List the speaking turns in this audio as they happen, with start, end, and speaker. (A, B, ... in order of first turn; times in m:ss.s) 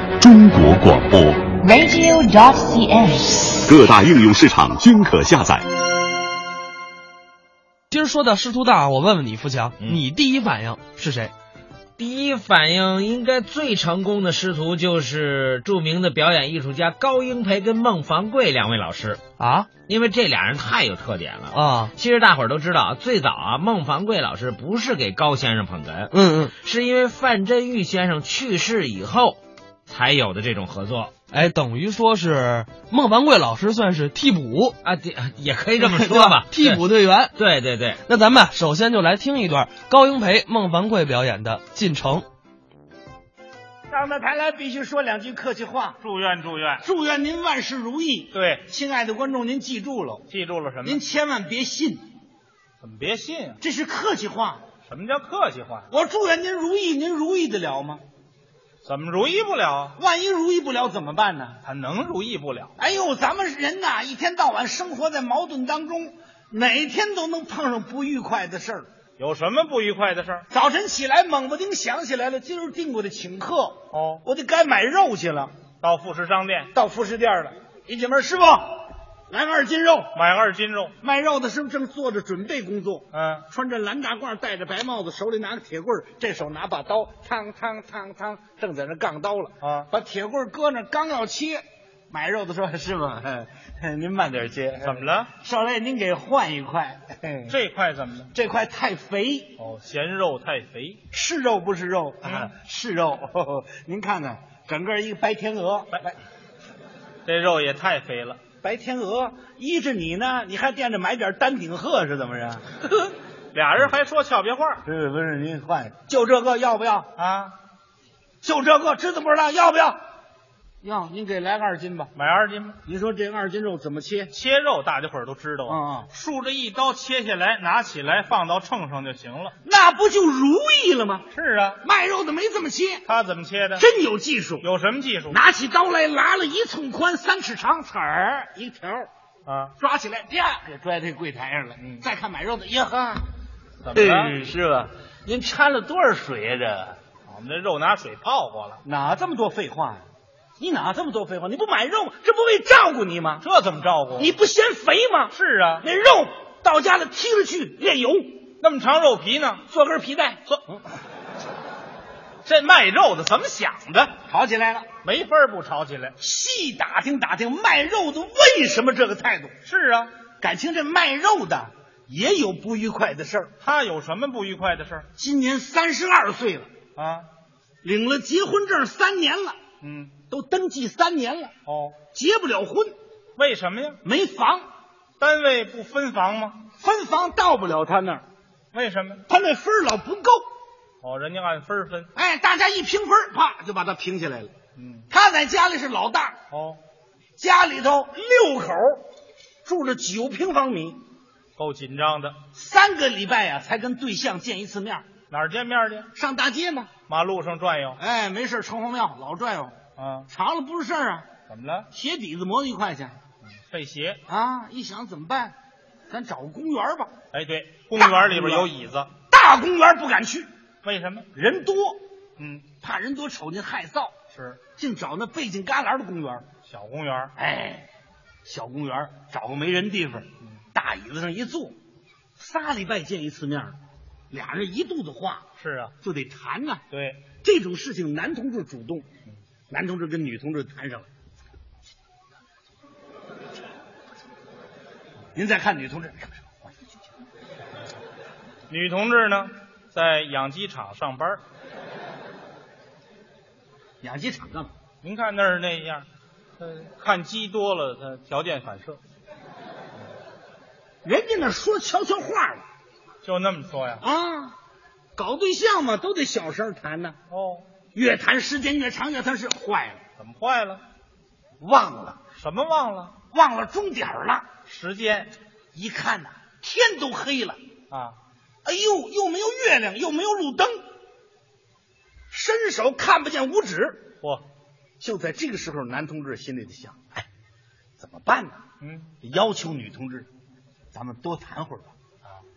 0:00.2-0:01.5 A
0:01.6-0:03.5 B
0:03.6-0:05.6 A
0:07.9-0:11.3 C
0:12.0-0:19.2 D
0:19.4-0:19.7 C
0:19.8-0:31.1 D
0:21.5-0:21.9 C
0:26.1-0:26.5 C
0:31.3-0:34.7 C
0:34.8-0:36.8 D
0:35.8-0:37.3 C
0:37.4-0:38.0 D
0:38.0-0:42.2 C
0:43.9-0:46.0 E
0:46.0-0:46.8 F
0:46.8-0:50.2 E
0:48.3-0:48.7 F
0:50.3-0:51.0 F
0:50.8-0:52.1 E
0:52.8-0:53.6 F
0:53.6-0:54.6 E
0:54.9-0:55.9 F
0:55.9-0:58.0 E
0:58.8-1:00.0 F
1:00.0-1:01.6 E
1:01.6-1:02.7 F
1:02.8-1:08.9 E
1:09.2-1:10.4 F
1:10.5-1:15.5 E
1:13.9-1:14.2 F
1:15.8-1:16.7 F
1:16.7-1:20.2 E
1:20.1-1:20.9 F
1:21.0-1:37.6 E
1:23.1-1:23.4 F
1:29.6-1:29.9 F
1:34.8-1:35.3 F
1:37.5-1:38.3 F
1:38.3-1:39.6 E
1:39.6-1:41.0 F
1:41.1-1:46.1 E
1:42.2-1:42.5 F
1:47.2-1:48.4 F
1:48.6-1:52.6 E
1:53.5-1:54.8 F
1:54.8-1:57.1 E
1:57.2-1:57.6 F
1:58.4-2:00.0 E
2:00.8-2:02.1 E
2:02.1-2:02.8 F
2:02.8-2:04.3 E
2:04.3-2:09.5 F
2:05.7-2:06.1 E
2:09.6-2:11.3 E
2:11.3-2:11.8 F
2:11.8-2:13.0 E
2:13.0-2:13.8 F
2:13.8-2:14.7 E
2:14.6-2:15.4 F
2:15.3-2:19.1 E
2:19.4-2:19.7 F
2:19.8-2:23.3 E
2:21.8-2:22.0 F
2:23.8-2:24.3 F
2:23.9-2:27.0 E
2:27.3-2:28.8 F
2:28.8-2:30.0 E
2:30.6-2:33.4 E
2:33.4-2:34.3 F
2:34.2-2:38.4 E
2:35.3-2:35.8 F
2:38.6-2:39.6 F
2:39.7-2:40.4 E
2:42.4-2:44.2 F
2:44.2-2:44.9 E
2:45.0-2:46.1 F
2:46.2-2:49.5 E
2:49.6-2:50.1 F
2:50.4-2:53.5 E
2:53.6-2:55.0 F
2:55.2-2:56.7 E
2:57.0-2:57.3 F
2:57.8-2:59.6 E
2:59.8-3:00.2 F
3:00.3-3:01.5 E
3:01.6-3:02.0 F
3:02.1-3:02.9 E
3:03.4-3:04.0 F
3:04.0-3:04.7 E
3:05.2-3:06.6 F
3:06.8-3:08.2 E
3:08.7-3:09.2 F
3:09.3-3:10.4 E
3:11.0-3:12.1 F
3:12.2-3:14.5 E
3:14.8-3:15.1 F
3:15.1-3:16.4 E
3:16.5-3:16.8 F
3:17.4-3:19.0 E
3:19.6-3:21.0 E
3:21.6-3:22.4 F
3:22.5-3:25.0 E
3:25.3-3:26.1 F
3:26.1-3:26.9 E
3:27.1-3:28.0 F
3:28.0-3:29.8 E
3:30.0-3:30.3 F
3:30.3-3:31.3 E
3:31.5-3:31.9 F
3:31.9-3:33.2 E
3:33.7-3:34.2 F
3:34.3-3:35.6 E
3:36.1-3:37.1 E
3:37.3-3:39.1 F
3:37.9-3:38.7 E
3:39.3-3:40.5 E
3:40.8-3:41.3 F
3:41.3-3:42.0 E
3:42.4-3:42.7 F
3:42.8-3:44.1 E
3:44.3-3:44.6 F
3:44.8-3:46.4 E
3:46.6-3:47.3 F
3:47.4-3:47.9 E
3:48.4-3:51.8 E
3:52.4-3:53.8 E
3:54.3-3:55.4 E
3:55.6-3:55.9 F
3:56.0-3:56.8 E
3:56.9-3:57.2 F
3:57.4-3:59.1 E
3:59.7-4:01.1 E
4:05.3-4:06.8 E
4:08.7-4:11.4 F
4:14.0-4:14.7 E
4:15.0-4:16.0 F
4:16.6-4:19.0 F
4:21.0-4:22.6 E
4:23.2-4:24.0 F
4:24.0-4:24.6 E
4:25.2-4:27.2 E
4:27.3-4:27.6 F
4:27.9-4:30.0 E
4:30.2-4:30.8 F
4:31.6-4:32.2 E
4:32.4-4:33.2 F
4:33.3-4:34.5 E
4:34.6-4:35.3 F
4:35.7-4:37.6 E
4:37.9-4:38.2 F
4:38.6-4:40.8 E
4:42.3-4:44.1 E
4:45.0-4:47.2 E
4:48.0-4:48.6 E
4:48.8-4:49.1 F
4:49.2-4:50.3 E
4:50.9-4:51.9 E